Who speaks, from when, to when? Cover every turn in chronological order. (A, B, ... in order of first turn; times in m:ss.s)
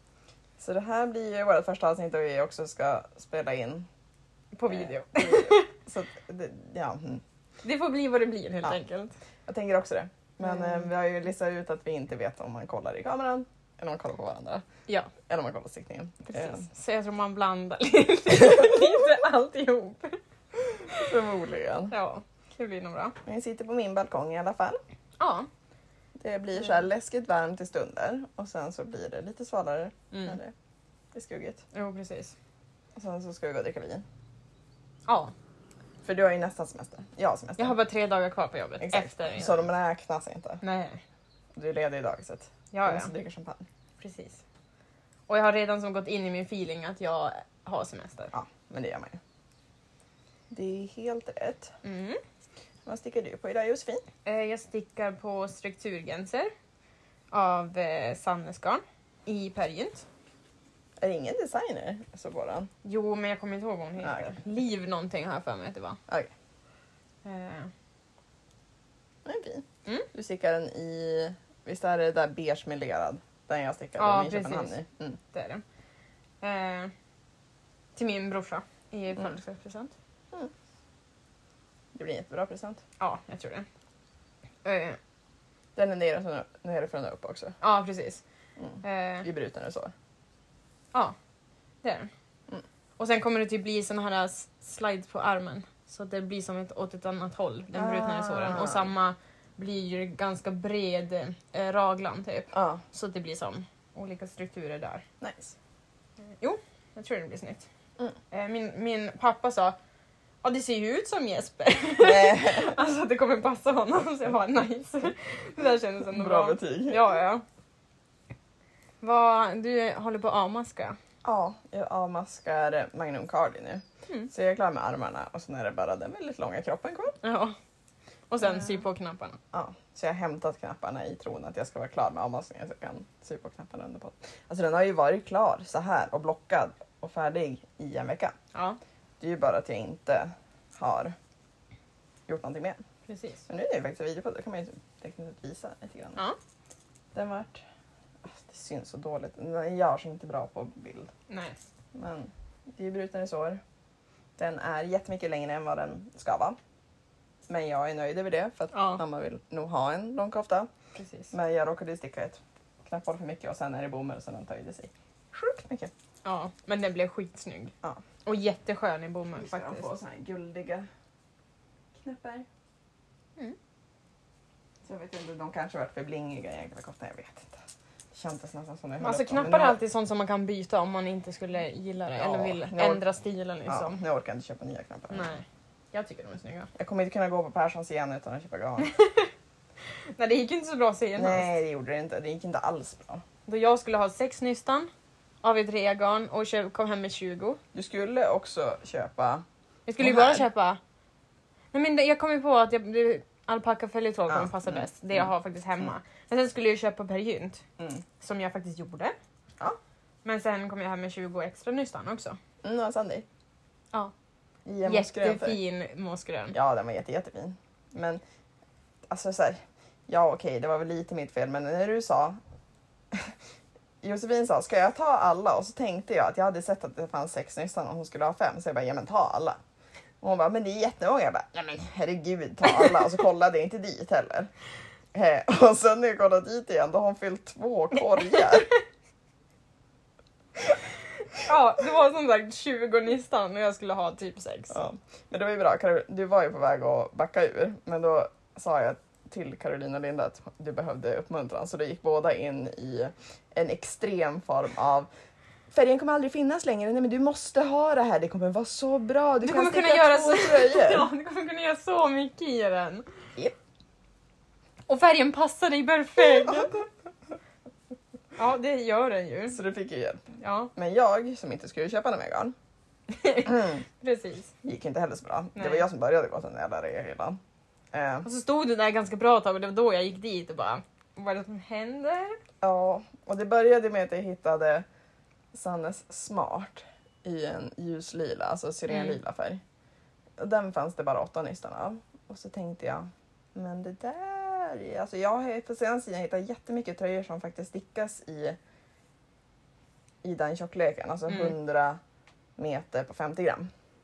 0:00.6-0:03.9 A
0:04.5-0:05.7 B
0:04.7-0:07.2 A
0:07.6-0:09.2 B
0:09.4-0:14.6 A
0:10.4-0:10.8 B
0:15.3-0:16.6 A
0:16.3-0:20.2 B
0:20.8-0:21.1 B
0:20.9-0:21.9 A
0:21.9-0:23.2 B
0:23.2-0:24.8 A
0:25.2-0:25.5 B
0:26.2-0:30.5 A
0:31.1-0:31.6 A
0:31.7-0:32.3 B
0:33.0-0:34.0 A
0:35.1-0:35.3 B
0:36.0-0:37.8 A
0:37.6-0:39.6 B
0:38.8-0:40.6 A
0:40.6-0:41.0 B
0:41.6-0:43.6 A
0:42.7-0:43.1 B
0:44.0-0:44.4 B
0:45.3-0:48.3 B
0:48.3-0:49.2 A
0:50.5-0:51.7 A
0:51.8-0:52.2 B
0:52.8-0:54.0 A
0:54.2-0:56.5 B
0:57.3-1:00.0 B
1:01.0-1:02.7 A
1:02.8-1:06.0 B
1:04.0-1:04.4 A
1:07.2-1:07.7 B
1:09.2-1:15.2 A
1:14.0-1:14.8 B
1:15.3-1:15.6 B
1:16.4-1:16.9 B
1:18.0-1:19.9 B
1:21.9-1:22.8 A
1:23.0-1:23.6 B
1:24.6-1:25.0 B
1:25.8-1:27.6 A
1:27.6-1:28.2 B
1:28.6-1:29.9 A
1:28.8-1:29.3 B
1:31.8-1:32.1 B
1:33.0-1:45.0 B
1:37.7-1:38.9 A
1:42.5-1:42.8 A
1:45.2-1:45.6 A
1:46.3-1:47.6 B
1:48.3-1:49.8 B
1:50.4-1:57.4 B
1:52.0-1:52.8 A
1:56.1-1:57.0 A
1:59.0-2:01.0 B
2:01.2-2:07.2 A
2:07.2-2:07.6 B
2:08.3-2:09.4 B
2:09.5-2:18.3 A
2:19.2-2:21.1 A
2:22.3-2:22.8 A
2:23.1-2:23.4 B
2:23.5-2:26.2 A
2:27.1-2:27.6 A
2:28.2-2:31.1 A
2:31.3-2:31.6 B
2:31.9-2:33.6 A
2:34.4-2:36.6 A
2:37.5-2:40.7 A
2:38.7-2:39.0 B
2:41.0-2:41.3 B
2:41.3-2:45.9 A
2:46.2-2:47.7 B
2:48.2-2:49.9 B
2:49.4-2:50.9 A
2:51.9-2:52.4 A
2:54.8-2:57.6 A
2:58.1-2:59.8 A
2:59.0-3:04.0 B
3:02.2-3:03.0 A
3:03.6-3:05.3 A
3:05.1-3:06.7 B
3:06.7-3:08.9 A
3:08.8-3:09.3 B
3:10.2-3:11.5 B
3:11.1-3:13.2 A
3:13.4-3:14.9 B
3:15.4-3:17.6 B
3:17.7-3:19.4 A
3:19.9-3:20.8 B
3:20.0-3:20.4 A
3:21.7-3:27.6 B
3:24.3-3:25.3 A
3:27.8-3:28.0 A
3:28.2-3:29.2 B
3:30.2-3:32.4 B
3:32.6-3:33.2 A
3:34.6-3:35.6 A
3:34.8-3:36.5 B
3:36.5-3:38.2 A
3:39.1-3:42.4 A
3:44.0-3:49.6 A
3:50.2-3:54.5 A
3:55.1-3:58.7 A
4:01.3-4:04.7 B
4:04.7-4:15.1 A
4:15.7-4:21.1 A
4:19.4-4:23.0 B
4:24.9-4:26.8 B
4:28.4-4:29.6 B
4:29.5-4:32.5 A
4:30.4-4:30.7 B
4:33.1-4:34.5 B
4:33.4-4:33.8 A
4:34.6-4:37.4 A
4:35.6-4:35.8 B
4:37.9-4:38.2 A
4:38.2-4:42.4 B
4:42.6-4:44.8 A
4:45.5-4:49.6 A
4:48.9-4:49.2 B
4:50.4-4:58.6 A
5:00.2-5:02.0 A
5:01.3-5:01.5 B
5:02.6-5:03.7 A